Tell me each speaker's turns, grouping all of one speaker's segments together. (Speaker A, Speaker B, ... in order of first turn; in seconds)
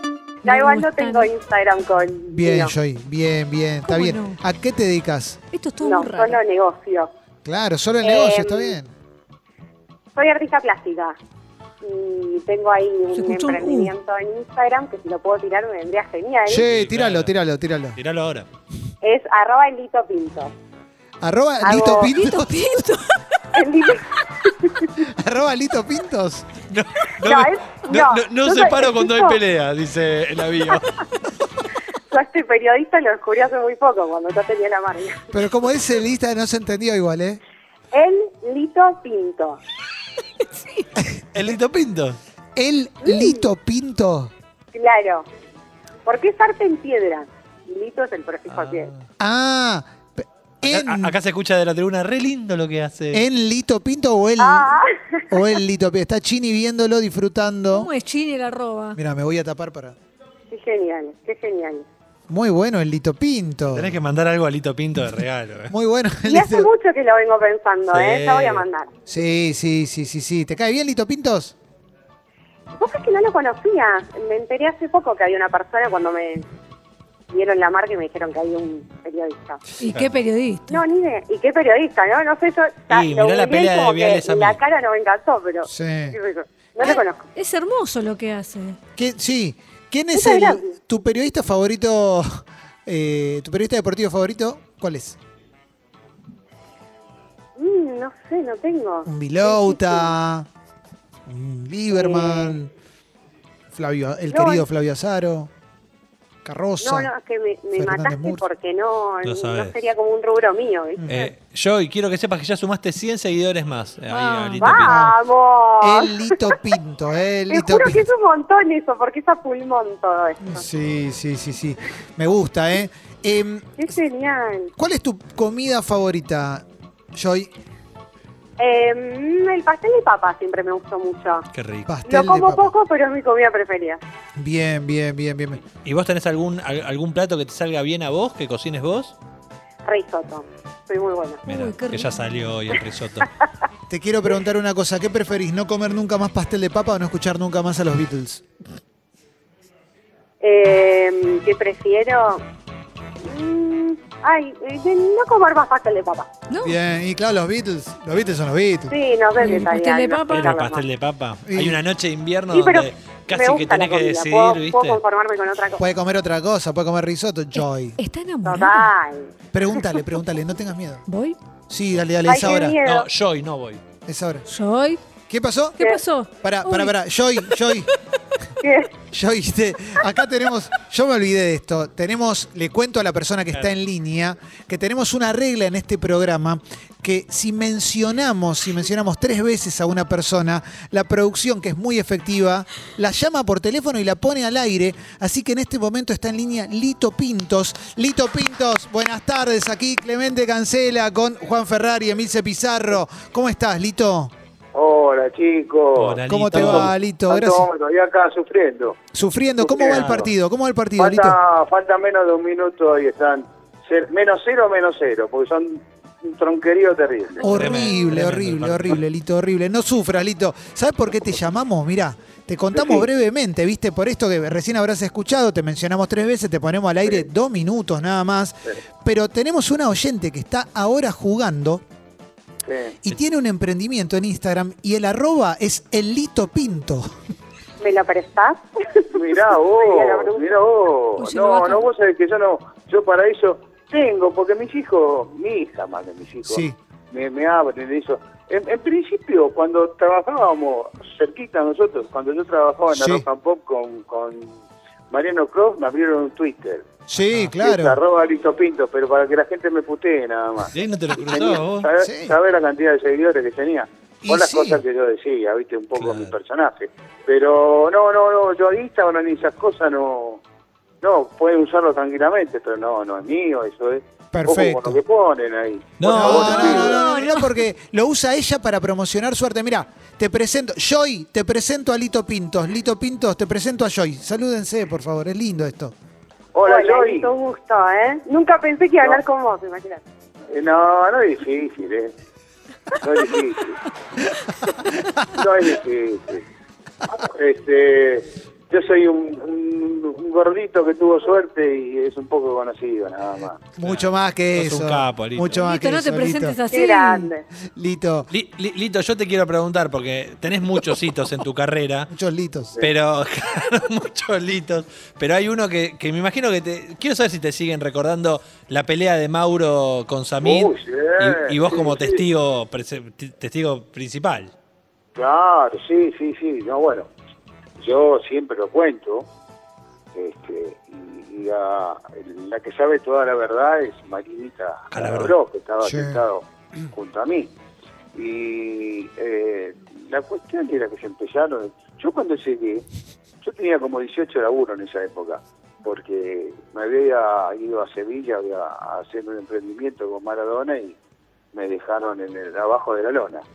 Speaker A: 0.4-2.7, 5.8-7.1, 8.0-8.8, 10.2-11.2, 11.8-16.7, 19.0-20.5, 21.6-22.1, 23.5-25.0, 27.2-29.4, 32.1-35.3, 37.9-39.6, 43.0-43.5, 44.7-45.3, 46.0-48.9, 54.4-55.2, 60.5-61.9, 66.2-68.9, 72.8-76.5, 77.3-79.6, 80.7-87.3, 90.1-90.8, 97.6-100.1, 101.9-102.6, 104.3-104.7, 106.8-111.1, 114.6-116.6, 117.5-120.7, 123.8-124.7, 128.6-131.5, 132.1-134.0, 139.8-141.4, 150.4-152.4, 153.2-156.3, 158.9-160.8, 162.5-165.8, 168.4-169.3, 172.2-173.1, 178.6-178.9, 237.8-240.6, 286.7-290.0, 306.7-307.4
Speaker B: 0.5-1.3, 3.9-4.4, 5.5-6.4, 13.1-13.9, 22.1-23.1, 57.7-59.0, 79.8-80.8, 86.8-88.8, 141.5-142.1, 156.5-156.8, 159.4-160.5, 168.0-168.9, 171.1-171.4, 174.5-175.0, 175.8-176.9, 241.2-241.9, 276.8-277.6, 305.5-307.3
Speaker C: 2.3-5.4, 7.5-8.9, 16.5-18.0, 21.2-22.8, 25.0-26.5, 35.3-37.4, 42.6-44.3, 49.2-51.1, 53.1-54.8, 55.3-57.9, 59.0-60.0, 62.3-64.0, 65.7-66.7, 69.1-71.5, 85.7-86.2, 89.0-95.2, 99.1-100.5, 101.3-102.7, 103.7-105.5, 106.5-107.1, 107.8-108.5, 111.0-111.3, 114.8-115.2, 115.8-118.0, 120.4-123.8, 124.8-127.5, 131.9-132.7, 134.4-135.6, 143.9-148.4, 156.6-159.0, 161.5-161.8, 165.8-168.0, 169.5-171.0, 171.7-172.8, 174.1-174.5, 175.3-175.8, 176.4-177.9, 179.1-204.3, 206.3-207.7, 209.1-211.4, 217.4-231.8, 233.0-237.1, 246.4-246.8, 252.9-253.3, 257.1-258.0, 262.0-262.4, 264.2-264.8, 274.3-275.0, 276.1-285.9, 303.8-306.6, 307.7-308.3, 312.1-312.8, 335.8-336.2
Speaker D: 16.5-17.3, 18.0-18.5, 26.7-30.9, 41.3-42.2, 48.5-49.0, 50.6-53.2, 63.7-65.7, 67.9-68.7, 82.9-84.6, 109.2-109.8, 111.1-115.0, 131.5-131.9, 135.8-139.2, 141.5-143.3, 160.3-165.0, 172.8-173.8, 206.0-206.9, 209.8-210.2, 217.5-219.0, 257.2-257.5, 260.7-261.9, 265.9-266.4, 276.0-276.9, 303.8-305.6, 308.3-312.1, 312.8-324.5, 334.9-335.4
Speaker E: 204.7-209.0, 209.6-210.3, 211.0-217.8, 222.7-223.1, 232.7-233.0, 239.1-254.6, 255.1-256.9, 257.6-270.4, 271.0-277.0, 286.5-287.3, 290.5-292.1, 293.0-293.8, 295.3-296.4, 297.1-303.6, 320.4-322.2, 325.1-327.1, 327.8-329.3, 330.1-337.5, 338.1-342.9, 343.4-351.0, 351.5-353.4